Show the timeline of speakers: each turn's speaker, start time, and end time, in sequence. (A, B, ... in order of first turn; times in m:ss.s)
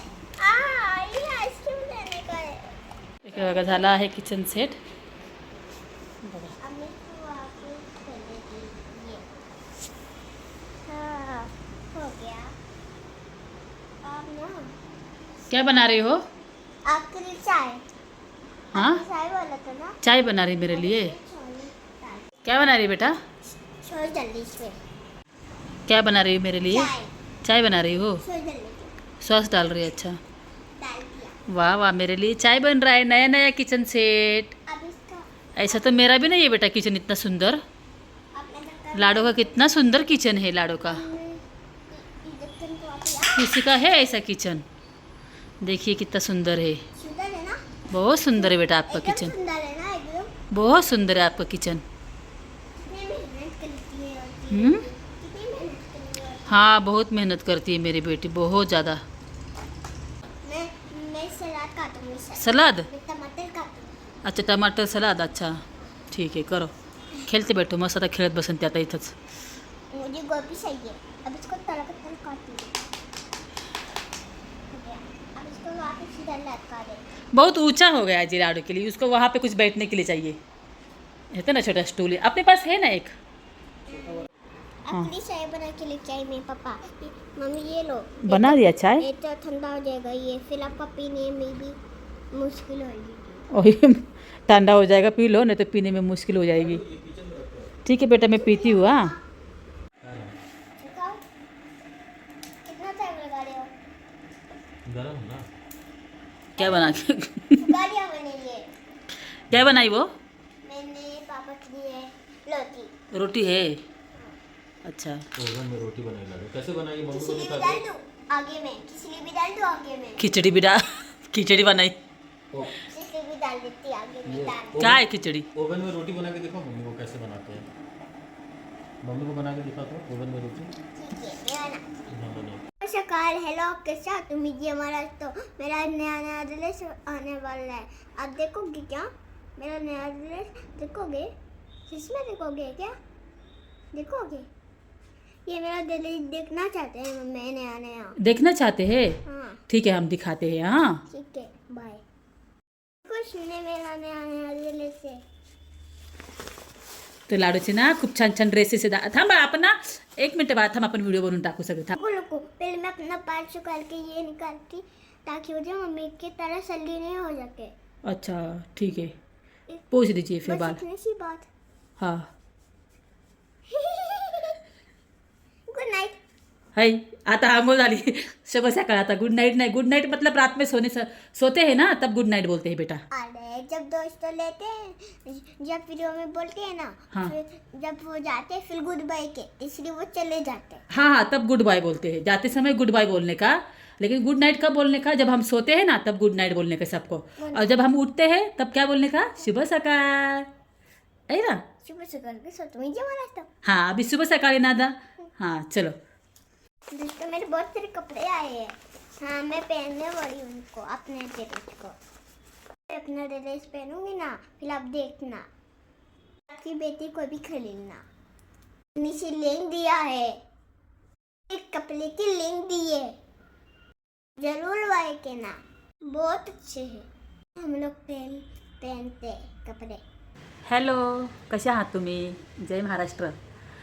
0:00.4-0:02.7 A
0:03.2-0:04.8 B
0:03.3-0:04.0 A
0:06.2-0:06.5 B
0:06.6-0:09.2 A
0:10.8-0:12.5 A
0:14.0-0:14.7 A
0:15.5-0:16.2 B
0:16.8-0:17.8 A
0:18.7-0:19.0 B
0:18.7-0:20.0 A
0:20.0-0:21.1 B
0:20.6-0:22.3 A
0:22.4-0:23.2 B
0:23.8-0:24.8 A
0:25.9-0:26.9 B
0:26.6-0:27.1 A
0:27.4-0:28.2 B
0:28.2-0:28.9 A
0:29.2-0:30.2 B
0:30.8-0:31.3 A
0:31.5-0:34.5 B
0:34.7-0:35.9 A
0:35.6-0:37.6 B
0:38.3-0:39.7 A
0:38.9-0:41.0 B
0:40.8-0:43.5 A
0:43.4-0:44.6 B
0:45.6-0:46.8 B
0:47.0-0:47.6 A
0:47.9-0:49.3 B
0:48.3-0:50.3 A
0:50.5-0:51.8 B
0:52.8-0:56.8 A
0:54.5-0:54.8 B
0:56.5-0:59.0 B
1:00.4-1:04.0 A
1:02.4-1:02.9 B
1:04.2-1:06.7 B
1:07.3-1:09.1 B
1:09.9-1:12.8 A
1:14.7-1:17.0 A
1:17.3-1:20.4 B
1:21.3-1:23.1 B
1:23.9-1:24.3 A
1:24.8-1:31.8 A
1:28.2-1:29.0 B
1:32.3-1:33.4 A
1:33.5-1:36.8 B
1:36.5-1:37.7 C
1:37.8-1:39.1 B
1:38.3-1:39.2 A
1:40.0-1:40.4 C
1:40.8-1:41.2 A
1:42.6-1:43.7 A
1:44.9-1:45.4 C
1:46.6-1:47.0 A
1:46.6-1:47.5 B
1:47.6-1:48.7 A
1:49.5-1:49.8 C
1:49.5-1:50.1 B
1:50.6-1:52.9 A
1:53.1-1:53.8 B
1:54.8-1:55.2 B
1:55.4-1:57.8 C
1:57.1-2:00.3 A
2:00.2-2:02.0 B
2:02.7-2:04.9 A
2:04.2-2:05.0 C
2:04.8-2:05.4 B
2:05.6-2:07.7 C
2:09.0-2:10.7 C
2:10.9-2:12.1 A
2:12.1-2:12.6 C
2:12.8-2:21.3 A
2:21.9-2:23.0 A
2:23.9-2:24.5 A
2:25.5-2:28.2 A
2:28.2-2:31.0 B
2:29.2-2:29.6 A
2:31.1-2:32.0 A
2:33.0-2:35.2 A
2:37.3-2:41.9 B
2:41.9-2:47.7 A
2:48.0-2:49.1 B
2:49.9-2:50.8 B
2:50.4-2:51.5 A
2:52.0-2:52.3 B
2:53.7-2:54.6 A
2:55.7-2:56.2 A
2:56.8-3:03.0 B
3:03.1-3:10.8 A
3:10.9-3:20.5 B
3:17.4-3:17.8 A
3:21.3-3:21.6 B
3:21.8-3:23.5 A
3:23.6-3:26.0 B
3:26.9-3:31.9 A
3:32.9-3:35.4 A
3:36.5-3:38.0 A
3:39.0-3:40.4 A
3:41.5-3:43.1 A
3:44.4-3:45.6 A
3:46.1-3:50.0 A
3:50.6-3:53.4 B